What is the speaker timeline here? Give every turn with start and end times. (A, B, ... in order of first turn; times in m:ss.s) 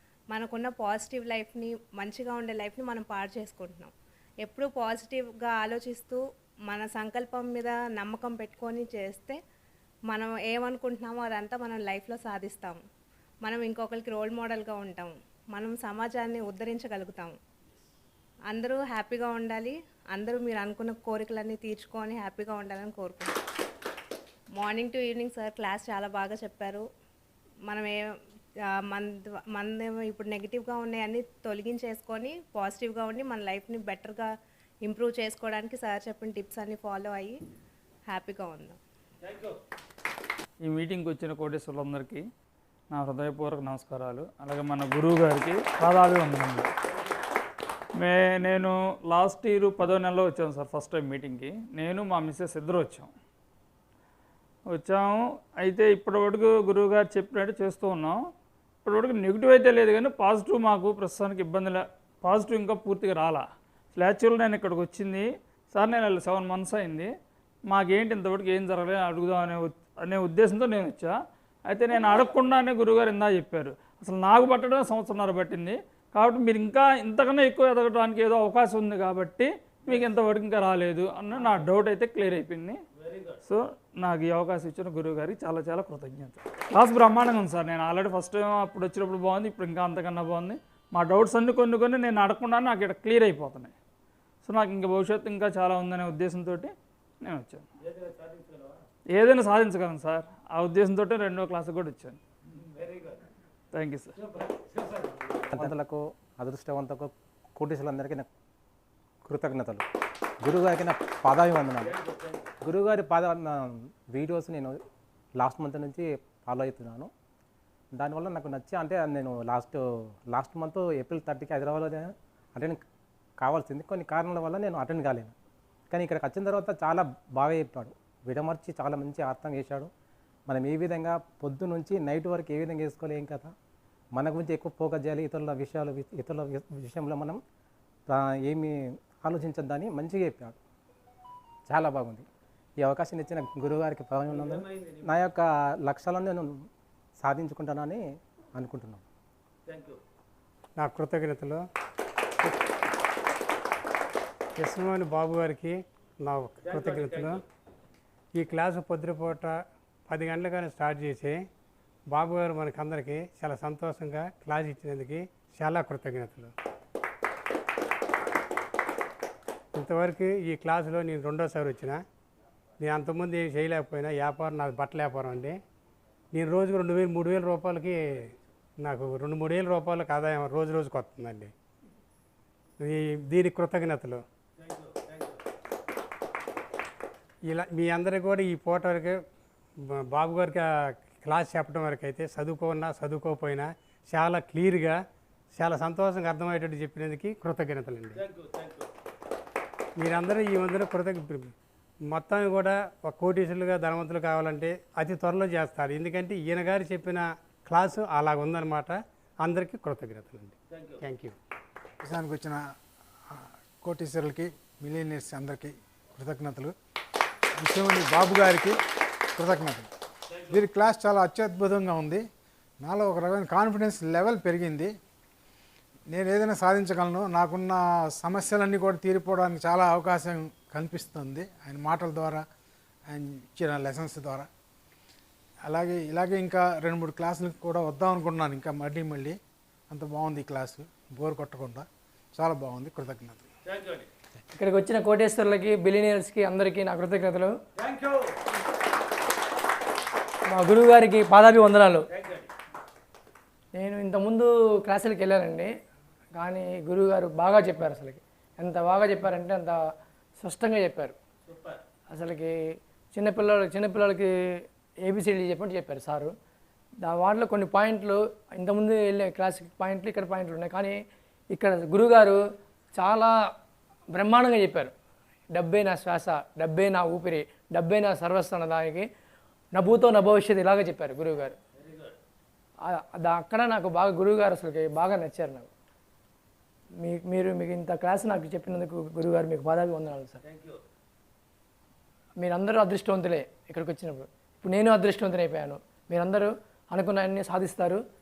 0:00.3-0:03.9 A
0:04.4-0:09.4 A
0:10.1-0:12.8 A
0:13.4-0:17.4 A
0:18.5-0:23.3 A
0:24.6-0:26.9 A
0:27.7-0:28.2 A
0:28.7-0:34.3 A
0:34.8-0:37.4 A
0:38.1-0:38.8 A
0:39.2-0:39.6 B
0:40.6-0:42.2 C
0:42.9-0:46.7 C
0:48.0-0:53.1 C
0:54.7-0:58.2 C
0:58.8-1:07.1 C
1:07.7-1:11.1 C
1:11.7-1:22.8 C
1:23.0-1:23.4 B
1:23.5-1:33.7 C
1:34.4-1:36.7 C
1:37.2-1:37.6 C
1:37.8-1:38.8 B
1:39.1-1:42.2 C
1:42.6-1:43.2 B
1:43.7-1:44.2 C
1:44.2-1:45.7 B
1:45.5-1:48.3 D
1:49.2-1:49.8 D
1:50.4-1:51.9 D
1:51.8-1:52.5 B
1:52.6-1:54.8 D
1:55.4-1:57.1 D
1:57.9-2:02.8 D
2:03.4-2:05.3 D
2:05.9-2:09.9 D
2:10.5-2:13.5 D
2:14.1-2:17.4 D
2:18.1-2:20.6 D
2:21.7-2:22.2 D
2:22.8-2:26.6 D
2:24.3-2:25.1 B
2:27.2-2:28.0 D
2:28.6-2:29.0 D
2:29.7-2:30.0 B
2:30.8-2:31.6 E
2:34.6-2:37.4 E
2:36.6-2:37.4 B
2:38.4-2:41.5 E
2:42.1-2:46.5 E
2:49.7-2:52.0 E
2:52.8-2:55.6 E
2:56.3-2:58.2 E
2:58.8-3:01.5 E
3:02.8-3:04.2 E
3:04.6-3:05.4 B
3:07.5-3:09.2 E
3:09.8-3:15.0 E
3:15.6-3:18.2 E
3:18.2-3:18.9 B
3:20.0-3:21.5 E
3:22.1-3:31.4 E
3:30.7-3:31.0 B
3:32.0-3:32.6 F
3:33.3-3:36.7 F
3:37.6-3:38.8 F
3:39.4-3:39.9 F
3:40.5-3:42.2 F
3:42.8-3:44.9 F
3:46.1-3:52.4 F
3:53.1-3:54.5 F
3:55.6-3:59.4 F
3:59.9-4:03.5 F
4:03.6-4:04.1 B
4:04.5-4:07.6 G
4:07.8-4:08.4 B
4:10.5-4:12.0 G
4:12.1-4:12.5 B
4:13.8-4:15.7 G
4:16.4-4:19.8 G
4:20.4-4:21.2 G
4:21.5-4:21.8 B
4:22.1-4:26.3 G
4:27.0-4:31.0 G
4:31.5-4:32.4 G
4:32.9-4:33.5 G
4:34.1-4:34.9 G
4:35.5-4:39.1 G
4:39.7-4:41.6 G
4:41.8-4:42.1 B
4:42.8-4:45.7 G
4:47.0-4:50.4 G
4:50.4-4:50.8 B
4:52.4-4:58.0 G